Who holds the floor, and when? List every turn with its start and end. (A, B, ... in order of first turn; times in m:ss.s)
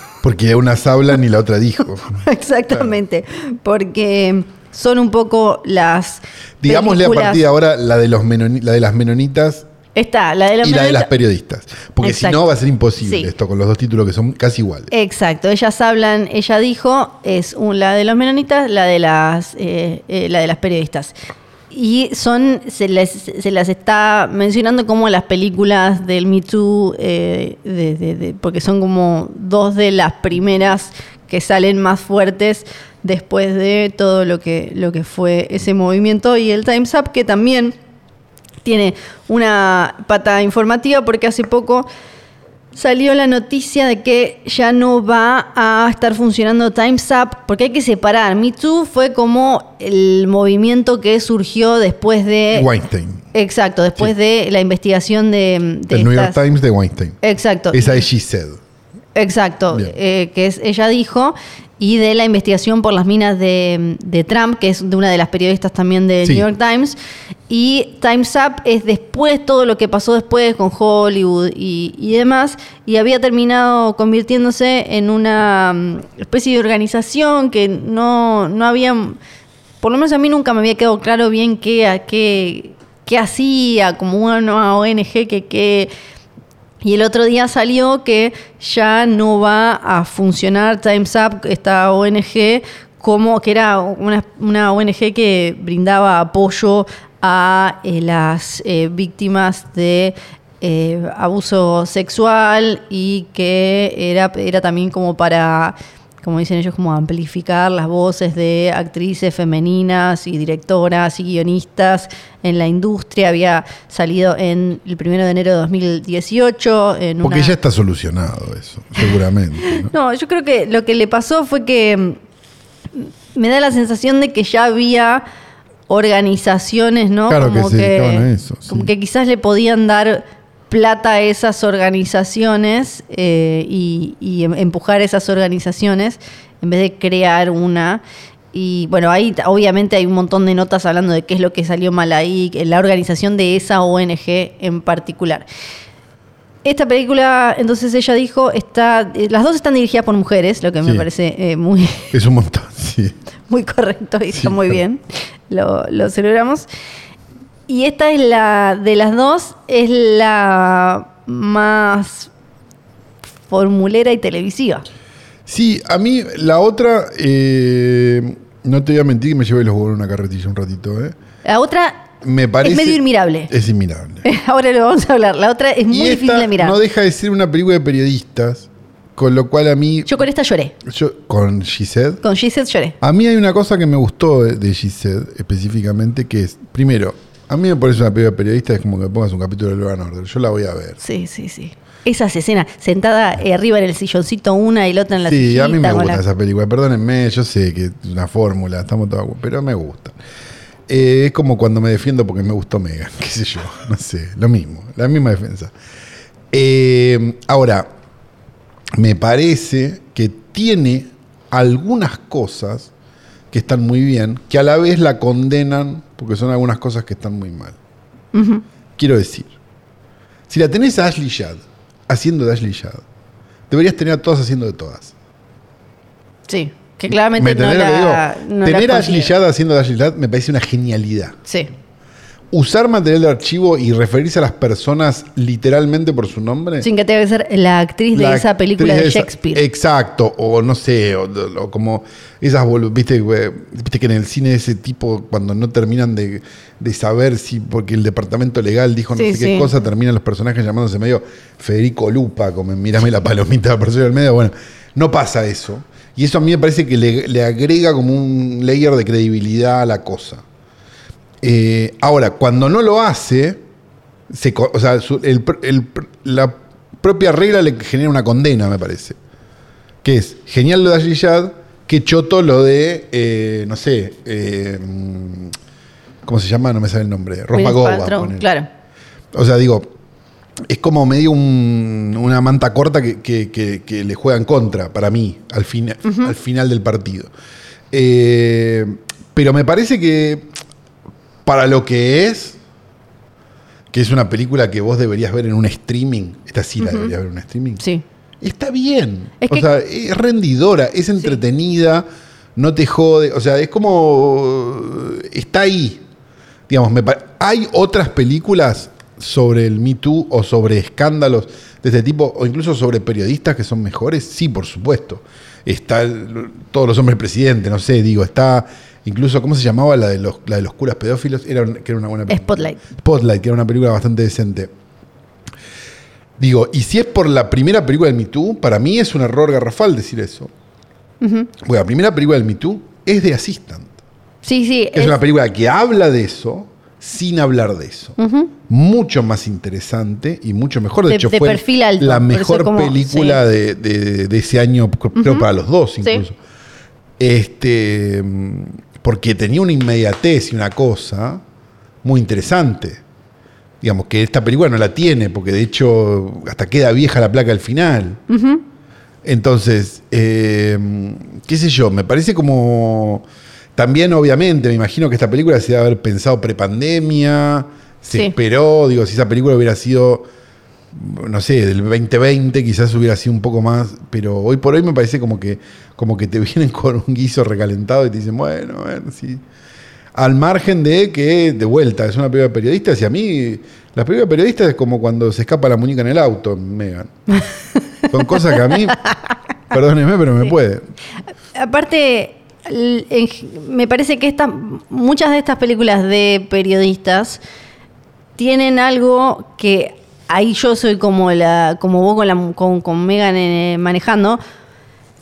0:00.2-0:02.9 A
0:02.2-0:07.4 B
0:06.6-0:09.6 A
0:09.9-0:11.1 B
0:10.6-0:14.9 A
0:12.0-0:12.4 B
0:13.0-0:13.3 B
0:14.9-0:21.1 B
0:21.7-0:37.8 B
0:38.6-0:41.9 B
0:42.7-0:52.7 B
0:52.5-0:53.2 A
0:53.3-0:56.4 B
0:55.9-0:57.2 A
0:57.2-0:58.0 B
0:57.7-0:58.6 A
0:59.1-1:07.0 B
1:07.5-1:19.2 B
1:19.8-1:25.9 B
1:26.8-1:57.5 B
1:57.2-1:59.9 A
1:59.6-2:02.2 B
2:02.9-2:05.2 B
2:05.9-2:25.4 B
2:07.3-2:08.9 A
2:26.6-2:32.1 B
2:32.1-2:33.1 A
2:33.5-2:36.7 B
2:34.3-2:34.8 A
2:37.7-2:42.3 B
2:43.5-2:44.8 B
2:45.4-2:51.1 A
2:51.4-2:52.1 B
2:52.2-2:54.2 A
2:52.6-2:53.5 B
2:54.2-2:56.8 B
2:55.9-3:00.1 A
3:00.0-3:00.7 B
3:00.8-3:02.2 A
3:02.2-3:03.0 B
3:03.0-3:11.0 A
3:11.0-3:16.2 B
3:15.2-3:20.2 A
3:20.9-3:25.7 A
3:26.5-3:27.9 A
3:29.0-3:32.9 A
3:33.5-3:37.8 A
3:38.3-3:38.6 B
3:39.0-3:39.5 A
3:40.5-3:43.0 A
3:43.7-3:45.1 A
3:46.5-3:49.3 B
3:47.1-3:51.4 A
3:52.5-3:56.9 A
3:56.8-3:59.6 B
3:58.1-4:20.4 A
4:09.1-4:09.7 B
4:21.4-4:23.6 A
4:24.3-4:29.2 A
4:30.0-4:35.5 A
4:36.2-4:38.5 A
4:37.5-4:38.7 B
4:39.3-4:39.9 A
4:40.7-4:47.3 A
4:46.0-4:46.3 B
4:47.9-4:50.5 A
4:51.4-4:52.6 A
4:53.9-4:57.8 A
4:56.8-4:57.1 B
4:58.4-5:06.0 A
4:59.4-4:59.7 B
5:06.7-5:24.7 A
5:22.3-5:22.8 B
5:26.4-5:30.5 A
5:31.2-5:31.5 B
5:31.6-5:34.0 A
5:34.4-5:35.2 B
5:34.9-5:38.2 A
5:38.2-5:38.5 B
5:38.7-5:46.4 A
5:41.1-5:43.4 B
5:45.2-5:45.5 B
5:47.2-5:51.4 A
5:52.0-5:53.0 A
5:53.8-5:58.2 A
5:58.3-5:58.6 B
5:59.2-6:03.2 A
6:03.8-6:10.3 A
6:10.9-6:19.4 A
6:20.1-6:27.4 A
6:28.0-6:29.2 B
6:28.1-6:29.0 A
6:29.7-6:30.8 A
6:31.5-6:37.4 B
6:38.4-6:44.4 B